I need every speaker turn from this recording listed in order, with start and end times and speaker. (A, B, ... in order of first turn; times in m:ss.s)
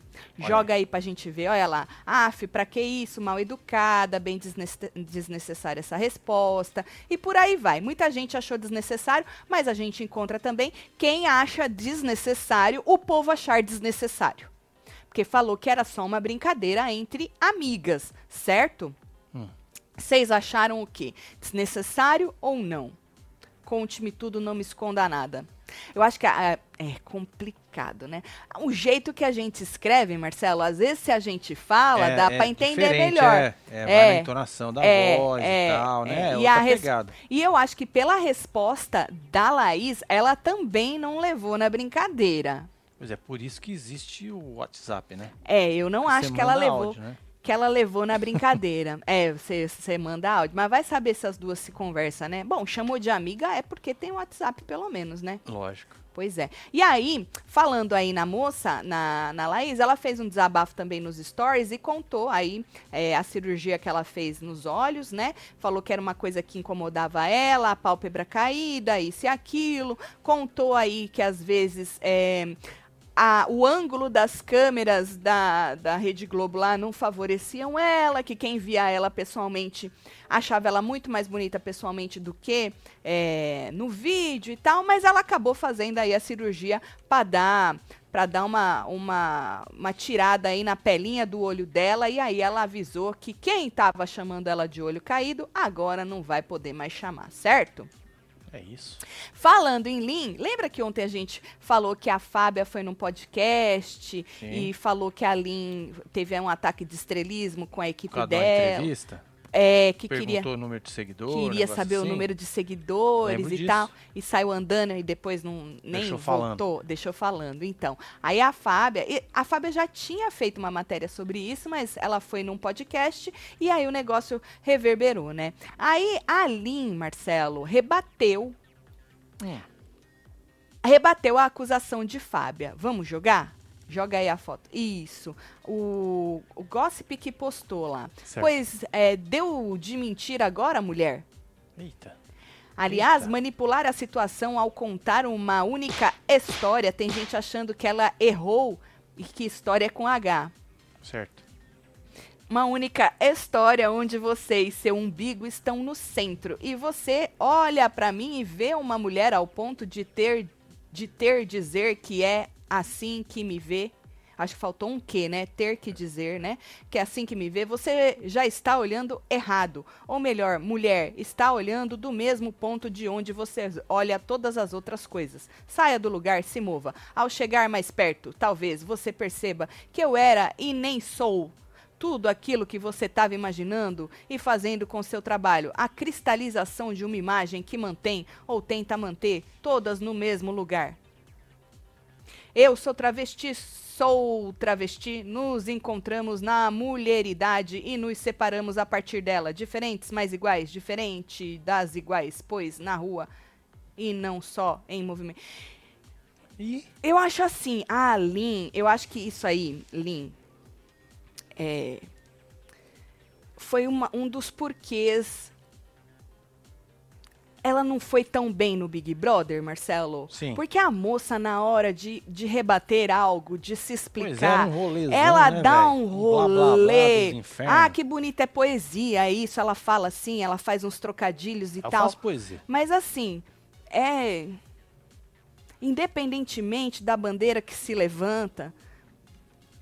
0:00.4-0:14.5 A
0:00.4-0:00.7 B
0:15.1-0:19.0 A
0:20.0-0:23.0 A
0:23.6-0:34.3 A
0:32.0-0:37.2 B
0:34.8-0:42.7 A
0:43.0-0:45.3 B
0:45.5-0:55.4 A
0:46.1-0:47.2 B
0:55.5-0:56.0 B
0:56.1-1:12.6 A
1:13.2-1:37.9 A
1:38.5-1:39.0 B
1:39.4-1:48.9 A
1:44.4-1:44.7 B
1:48.1-1:49.2 B
1:49.5-1:50.5 A
1:50.1-1:52.3 B
1:51.3-2:08.6 A
1:53.2-1:53.9 B
1:55.9-1:56.6 B
2:10.8-2:21.2 A
2:21.8-2:22.2 B
2:22.8-2:30.5 A
2:22.9-2:23.3 B
2:31.0-2:31.4 B
2:32.5-3:11.0 A
3:12.5-3:23.3 A
3:24.0-3:25.4 A
3:26.6-3:26.9 B
3:27.0-3:30.4 A
3:31.6-3:32.1 A
3:33.6-3:35.5 A
3:37.6-3:54.6 A
3:40.3-3:40.6 B
3:44.2-3:48.0 B
3:51.8-3:52.6 B
3:55.8-3:58.7 A